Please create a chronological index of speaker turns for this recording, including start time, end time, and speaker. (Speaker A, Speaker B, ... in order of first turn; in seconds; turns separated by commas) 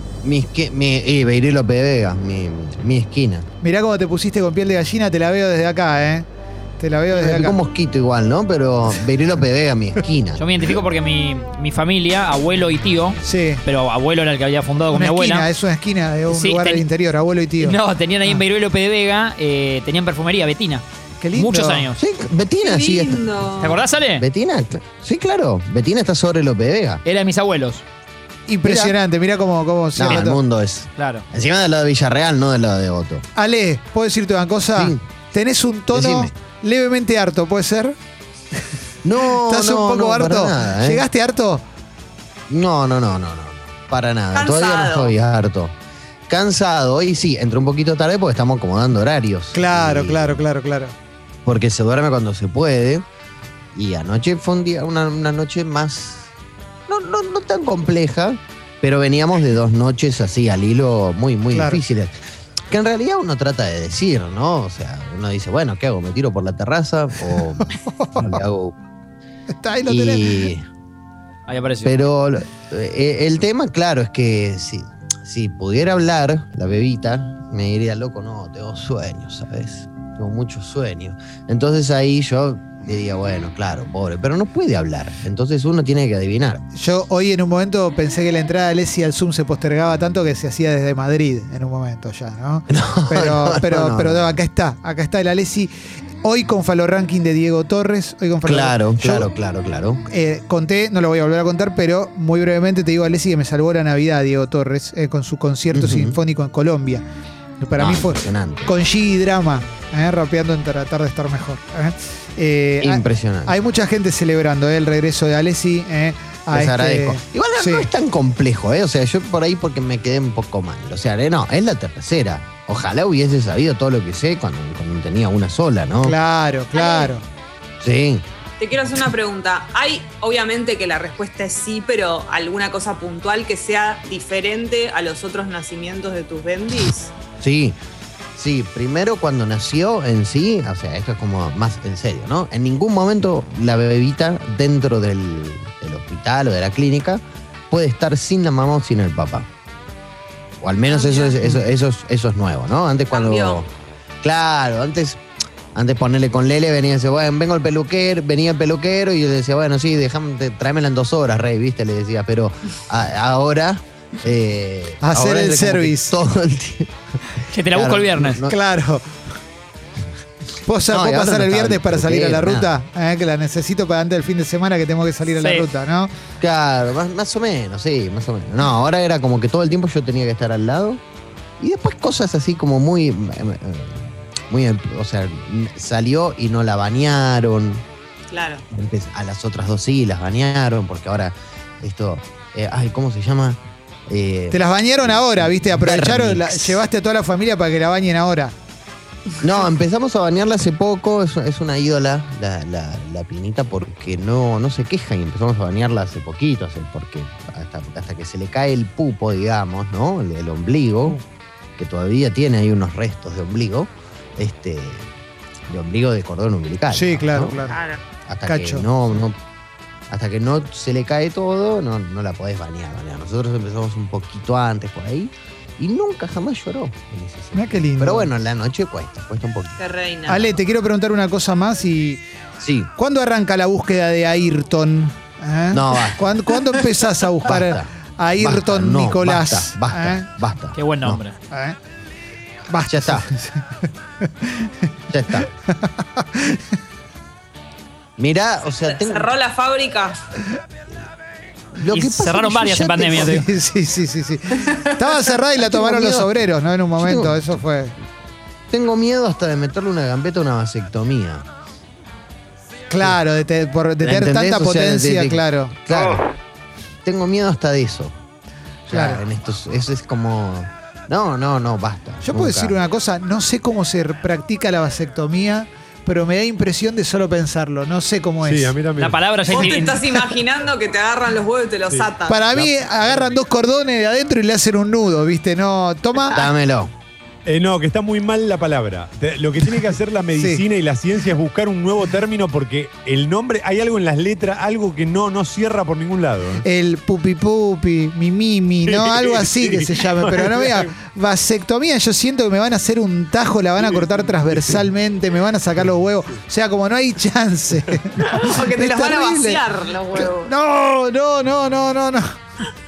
Speaker A: 0.2-3.5, Speaker B: 3.6-6.2, Speaker B: 6.8-7.6, Speaker A: 7.1-10.4, Speaker C: 10.4-15.5, Speaker B: 13.2-13.6, Speaker B: 14.9-18.4, Speaker C: 16.3-16.8, Speaker C: 17.6-22.0, Speaker B: 21.2-21.9, Speaker A: 22.0-23.3, Speaker D: 22.6-23.8, Speaker C: 23.6-24.2, Speaker A: 24.2-27.0, Speaker C: 27.0-27.8, Speaker B: 28.5-30.4, Speaker A: 28.6-28.9, Speaker A: 29.9-33.2, Speaker C: 31.0-31.2, Speaker B: 33.3-37.9, Speaker A: 34.8-35.0, Speaker A: 35.9-36.3, Speaker A: 39.0-41.0, Speaker B: 39.3-41.6, Speaker A: 42.5-45.7, Speaker D: 44.3-45.1, Speaker A: 46.3-50.4, Speaker B: 49.5-50.9, Speaker A: 51.4-53.0, Speaker A: 53.7-56.3, Speaker A: 56.9-68.8, Speaker B: 61.5-61.8, Speaker B: 67.6-68.4, Speaker B: 69.5-70.5, Speaker A: 69.9-70.7, Speaker C: 71.5-72.0, Speaker A: 71.8-86.6, Speaker B: 86.7-95.7, Speaker A: 92.7-94.3, Speaker B: 96.2-99.3, Speaker A: 98.4-100.0, Speaker B: 100.1-107.0, Speaker A: 105.7-106.2, Speaker B: 107.6-117.8, Speaker A: 107.8-108.7, Speaker A: 112.8-113.5, Speaker A: 116.5-126.2, Speaker B: 126.0-127.2, Speaker D: 126.7-127.1, Speaker A: 127.8-128.2, Speaker D: 128.6-137.1, Speaker A: 137.4-137.8, Speaker A: 138.3-149.5, Speaker A: 150.6-153.7, Speaker D: 150.9-151.5, Speaker D: 153.1-153.6, Speaker A: 154.2-155.2, Speaker A: 155.7-166.9, Speaker B: 165.0-166.1, Speaker C: 167.5-168.4, Speaker A: 167.7-168.5, Speaker B: 168.5-169.0, Speaker B: 170.6-176.1, Speaker A: 170.9-172.7, Speaker C: 175.3-175.7, Speaker A: 176.4-181.0, Speaker A: 181.6-187.8, Speaker D: 188.3-188.6, Speaker A: 188.7-196.8, Speaker B: 194.5-198.5, Speaker A: 199.4-211.2, Speaker A: 211.8-215.1, Speaker A: 215.7-217.6, Speaker B: 216.9-217.8, Speaker D: 217.7-218.0, Speaker A: 218.2-219.4, Speaker B: 218.4-218.9, Speaker A: 220.1-229.8, Speaker B: 227.5-228.3, Speaker D: 229.8-230.5, Speaker B: 230.3-232.2, Speaker A: 232.6-232.9, Speaker B: 233.0-240.3, Speaker A: 235.7-236.3, Speaker A: 237.4-241.2, Speaker C: 240.7-241.3, Speaker B: 241.5-241.8, Speaker B: 242.7-243.7, Speaker A: 242.9-243.3, Speaker B: 244.2-244.7, Speaker A: 245.1-245.5, Speaker B: 245.8-246.6, Speaker A: 248.2-249.3, Speaker D: 248.8-250.2, Speaker A: 251.8-253.4, Speaker C: 251.9-253.5, Speaker B: 253.1-257.9, Speaker A: 255.6-256.3, Speaker A: 257.0-257.4, Speaker A: 258.7-261.5, Speaker B: 262.9-265.8, Speaker A: 264.0-266.2, Speaker A: 267.0-268.1, Speaker A: 268.9-272.7, Speaker B: 268.9-269.2, Speaker B: 272.2-278.7, Speaker E: 278.4-279.2, Speaker C: 279.0-280.1, Speaker D: 279.5-282.5, Speaker B: 279.6-279.9, Speaker B: 282.3-286.5, Speaker A: 286.3-286.9, Speaker E: 287.4-296.6, Speaker B: 290.4-290.6, Speaker B: 296.6-309.6, Speaker E: 298.8-300.9, Speaker D: 308.2-310.5, Speaker B: 310.1-312.3